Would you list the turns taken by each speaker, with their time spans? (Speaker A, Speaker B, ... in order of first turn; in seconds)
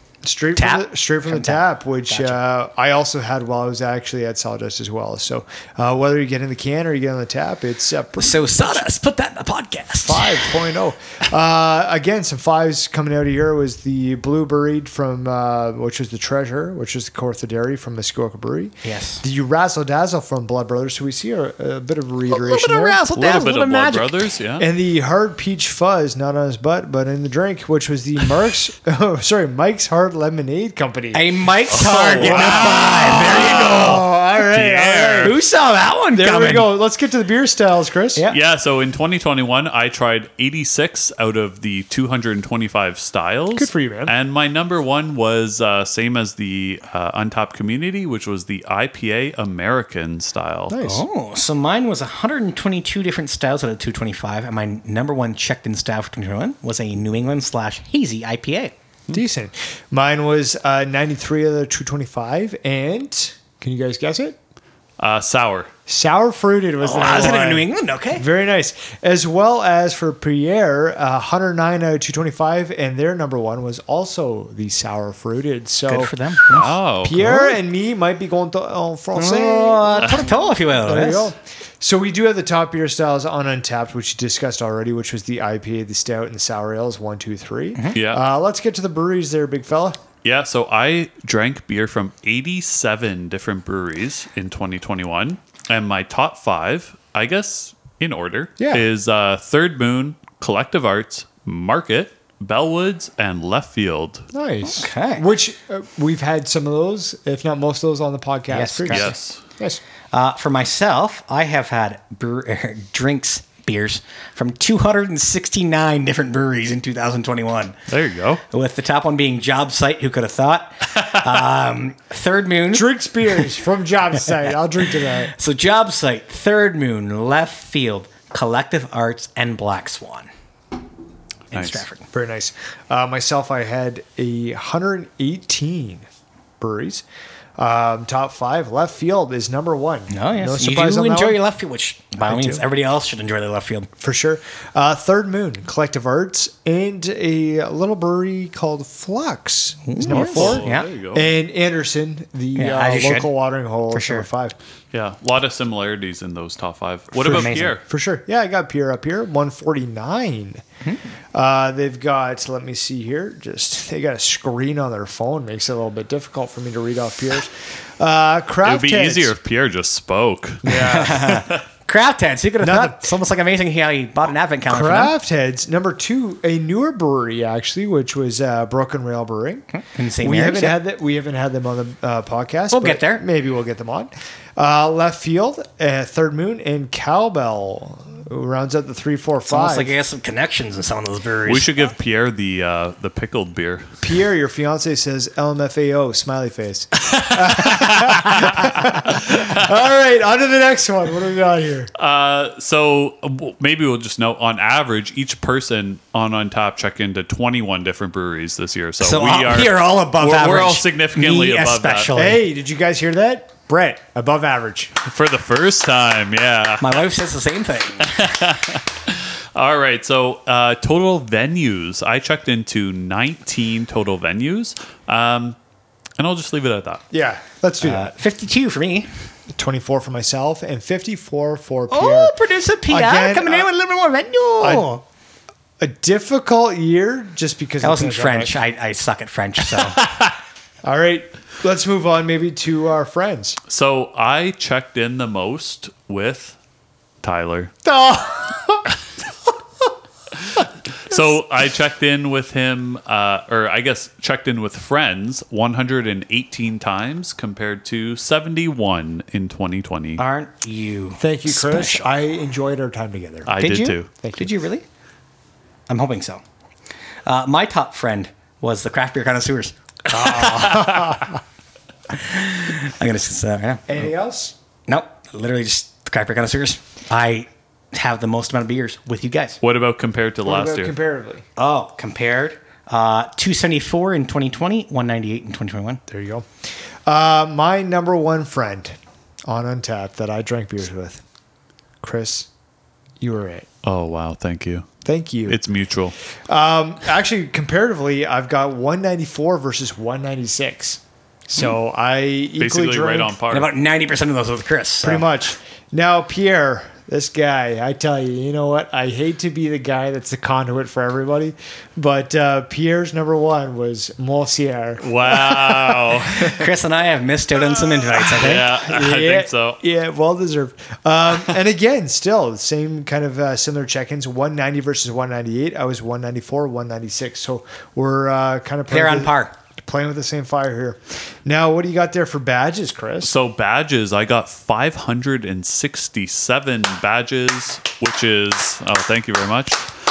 Speaker A: 0.2-8.8, 10.0-23.0, 24.6-35.3, 36.1-38.2, 43.5-44.1, 50.7-51.0, 59.1-64.3, 65.9-90.0, 98.6-98.9, 104.3-109.8, 122.7-125.3, 132.1-136.1, 136.6-137.0, 137.6-141.4, 142.2-142.6, 144.0-154.6, 157.1-160.6, 161.3-169.3, 170.6-171.4, 172.6-173.1, 174.7-179.7, 180.2-189.9, 194.0-201.9, 212.1-214.9, 227.1-228.1, 229.5-232.4, 232.9-233.7, 234.6-235.0, 235.8-238.6, 240.8-243.6, 247.8-248.8, 261.2-263.5, 264.2-264.5, 270.1-271.2, 273.9-274.5, 280.4-281.4, 286.1-286.4, 287.1-288.9, 289.5-291.2, 292.0-292.5, 293.2-293.6, 295.0-295.6, 296.5-303.4, 305.0-316.5, 318.2-333.3
Speaker B: 0.5-2.4, 8.2-10.4, 18.8-19.2, 22.3-24.3, 31.1-34.0, 35.1-36.7, 50.8-58.7, 66.8-68.2, 75.8-77.5, 79.1-81.3, 104.7-105.3, 108.5-109.2, 110.1-117.8, 118.5-123.5, 124.8-130.3, 131.5-132.1, 140.1-143.9, 149.8-150.9, 152.5-153.3, 153.9-154.3, 157.2-157.8, 170.8-175.1, 179.7-180.8, 182.7-183.2, 189.4-191.8, 209.0-212.4, 216.8-218.3, 227.8-229.1, 231.9-235.0, 237.8-240.0, 260.2-262.1, 263.6-264.8, 265.9-266.4, 267.2-271.0, 272.1-274.0, 274.9-279.6, 281.6-286.0, 303.5-305.3, 316.5-318.8, 328.9-329.5
Speaker C: 23.1-24.7, 31.7-35.3, 38.3-50.8, 65.0-65.7, 76.5-77.2, 87.9-88.2, 90.2-104.2, 108.9-109.4, 117.9-118.4, 131.5-131.8, 150.1-151.3, 154.9-157.8, 168.6-171.6, 191.4-193.9, 197.1-198.7, 202.0-212.1, 215.0-217.1, 218.0-225.6, 226.2-227.0, 243.7-246.6, 247.2-247.7, 250.4-260.2, 263.4-264.1, 279.6-280.9, 293.8-294.9, 295.4-296.1, 302.6-303.7, 315.0-316.6, 318.2-319.8, 333.2-339.8